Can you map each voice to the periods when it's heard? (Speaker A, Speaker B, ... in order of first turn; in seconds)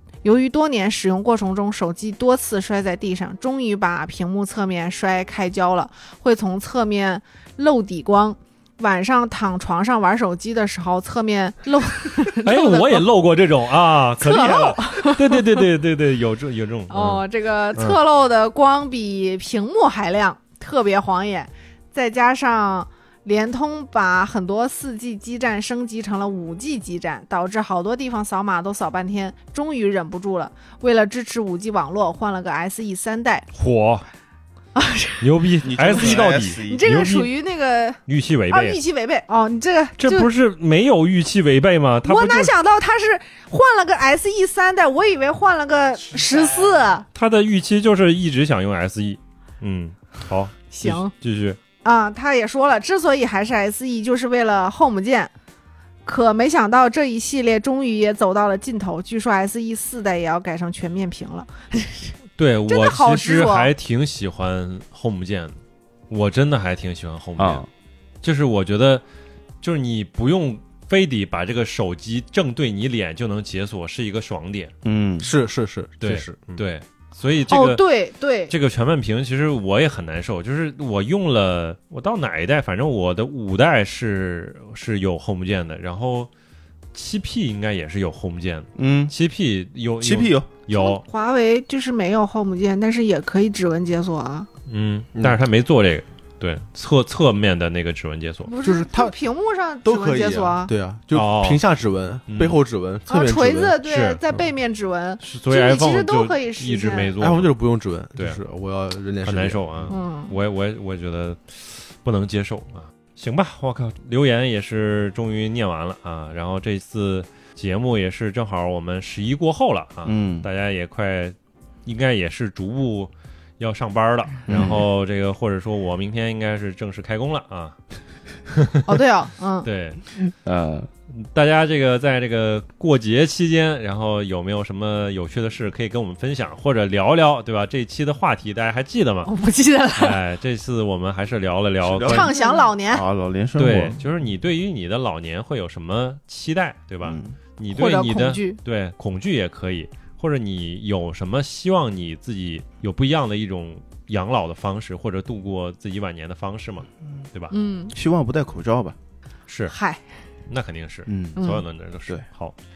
Speaker A: 0.2-13.1, 14.2-15.6, 16.9-33.5, 34.7-35.3, 35.9-40.3, 42.0-47.1, 50.7-51.1, 51.8-55.3, 56.0-62.1, 62.7-63.7, 77.5-78.5, 90.7-94.5, 98.5-100.7, 103.1-107.1, 109.9-110.3, 128.8-129.7, 139.2-140.2, 142.0-143.0, 147.7-148.6, 157.5-157.9, 159.7-160.1, 161.4-161.6
Speaker B: 12.4-17.2, 33.5-34.0, 35.2-37.3, 38.1-38.8, 40.0-42.5, 47.1-51.6, 62.4-67.7, 68.2-69.0, 69.6-74.7, 76.0-77.8, 78.5-86.3, 86.9-91.0, 94.7-98.5, 101.1-101.6, 102.3-102.6, 103.8-104.5, 105.2-107.5, 109.2-127.8, 128.5-128.8, 129.6-130.0, 131.1-139.3, 139.9-142.3, 143.6-157.5, 159.5-159.8, 160.5-162.5
Speaker C: 35.6-37.1, 67.4-67.7, 74.8-75.3, 88.8-89.1, 90.0-90.5, 120.0-120.5, 124.5-124.8, 130.3-130.9, 141.8-144.0, 147.0-147.4, 157.9-158.9, 161.1-161.4
Speaker D: 75.2-76.4, 98.6-99.2, 99.8-103.8, 107.2-109.6